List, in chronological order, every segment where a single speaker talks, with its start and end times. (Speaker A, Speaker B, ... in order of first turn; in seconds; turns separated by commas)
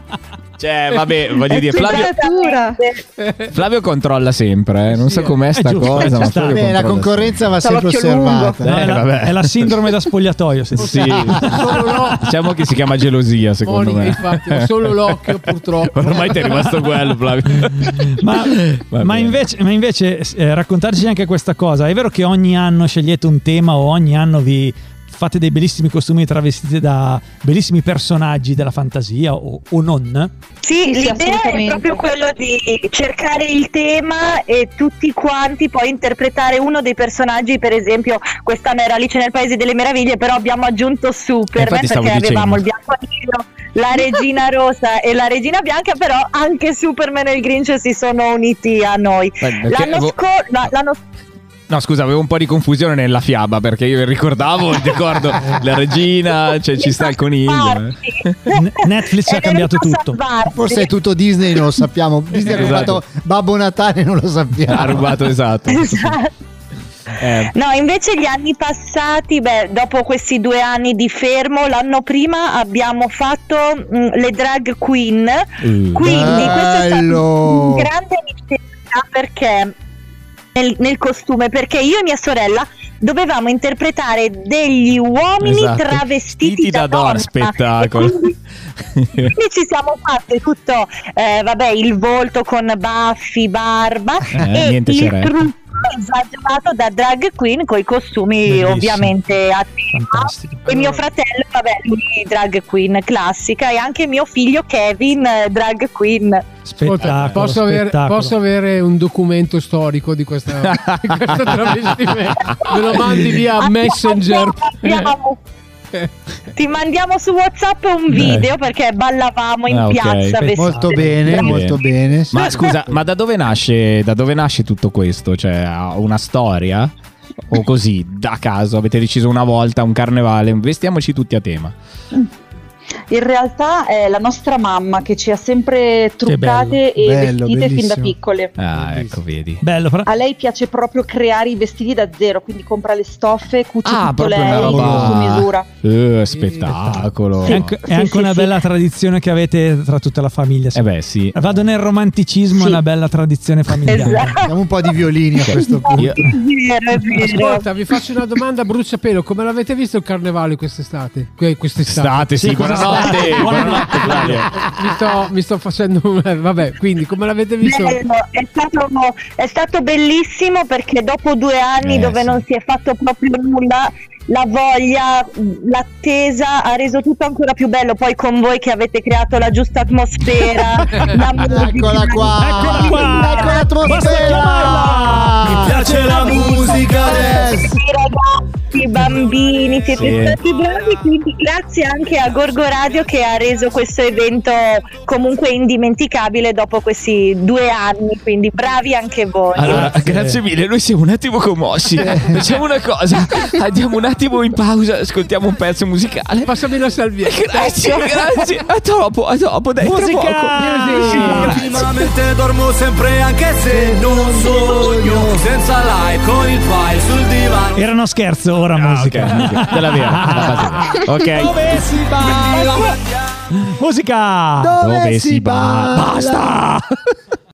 Speaker A: 0.6-2.1, Speaker B: 1.7-3.0, Speaker C: 1.7-2.8, Speaker D: 3.2-3.5, Speaker A: 3.5-7.5, Speaker D: 4.9-5.4, Speaker E: 5.5-6.7, Speaker F: 6.4-9.0, Speaker C: 7.6-8.6, Speaker A: 8.6-9.8, Speaker E: 8.6-11.3, Speaker A: 10.8-15.4, Speaker D: 10.8-12.2, Speaker D: 13.6-16.6, Speaker A: 15.9-19.4, Speaker E: 17.6-30.3, Speaker B: 30.6-51.0, Speaker C: 30.8-31.9, Speaker A: 41.6-42.6, Speaker A: 49.4-50.1, Speaker A: 51.7-58.4, Speaker B: 56.8-60.9, Speaker E: 58.5-60.2, Speaker F: 60.5-65.1, Speaker A: 62.5-63.0, Speaker A: 64.7-66.2, Speaker B: 65.7-66.3, Speaker A: 67.2-67.5, Speaker B: 67.4-79.7, Speaker A: 75.6-76.5, Speaker F: 76.0-77.9, Speaker B: 80.5-88.3, Speaker A: 85.4-88.2, Speaker A: 88.8-89.3, Speaker B: 89.2-106.5, Speaker A: 94.3-95.3, Speaker E: 98.5-99.3, Speaker E: 99.9-100.6, Speaker D: 100.7-101.0, Speaker E: 106.7-108.3, Speaker D: 106.8-115.1, Speaker A: 106.9-107.5, Speaker A: 110.6-111.7, Speaker B: 112.6-112.9, Speaker B: 113.5-115.4, Speaker B: 116.5-121.9, Speaker A: 118.1-118.5, Speaker A: 119.7-120.4, Speaker E: 120.4-121.5, Speaker F: 120.5-123.0, Speaker A: 121.3-121.8, Speaker A: 122.3-126.9, Speaker B: 122.4-122.7, Speaker A: 127.5-131.7, Speaker C: 133.1-138.5, Speaker E: 136.2-136.8, Speaker F: 137.0-138.1, Speaker A: 138.6-139.6, Speaker D: 138.7-139.2, Speaker E: 139.6-140.1, Speaker C: 140.1-145.7, Speaker A: 143.8-147.8, Speaker F: 144.5-145.4, Speaker D: 146.3-147.1, Speaker E: 147.5-154.3, Speaker B: 147.9-148.5, Speaker A: 150.7-151.6, Speaker B: 153.9-154.5, Speaker F: 154.4-156.2, Speaker A: 155.4-156.2, Speaker B: 155.5-157.6, Speaker D: 157.1-163.7, Speaker A: 161.9-164.5, Speaker E: 162.4-164.4, Speaker D: 164.7-168.0, Speaker B: 167.6-184.0, Speaker A: 171.8-172.4, Speaker F: 181.2-187.8, Speaker E: 182.3-186.7, Speaker B: 185.9-199.9, Speaker A: 189.9-190.4, Speaker A: 199.5-206.6, Speaker E: 199.6-200.4, Speaker F: 202.0-202.4, Speaker D: 206.4-207.8, Speaker A: 207.2-211.6, Speaker B: 207.7-208.2, Speaker E: 209.8-211.7, Speaker D: 210.6-211.7, Speaker G: 211.3-217.8, Speaker F: 213.7-215.5, Speaker E: 217.7-222.9, Speaker A: 218.8-221.7, Speaker B: 222.4-223.0, Speaker E: 223.5-224.7, Speaker F: 224.6-226.5, Speaker A: 224.8-226.8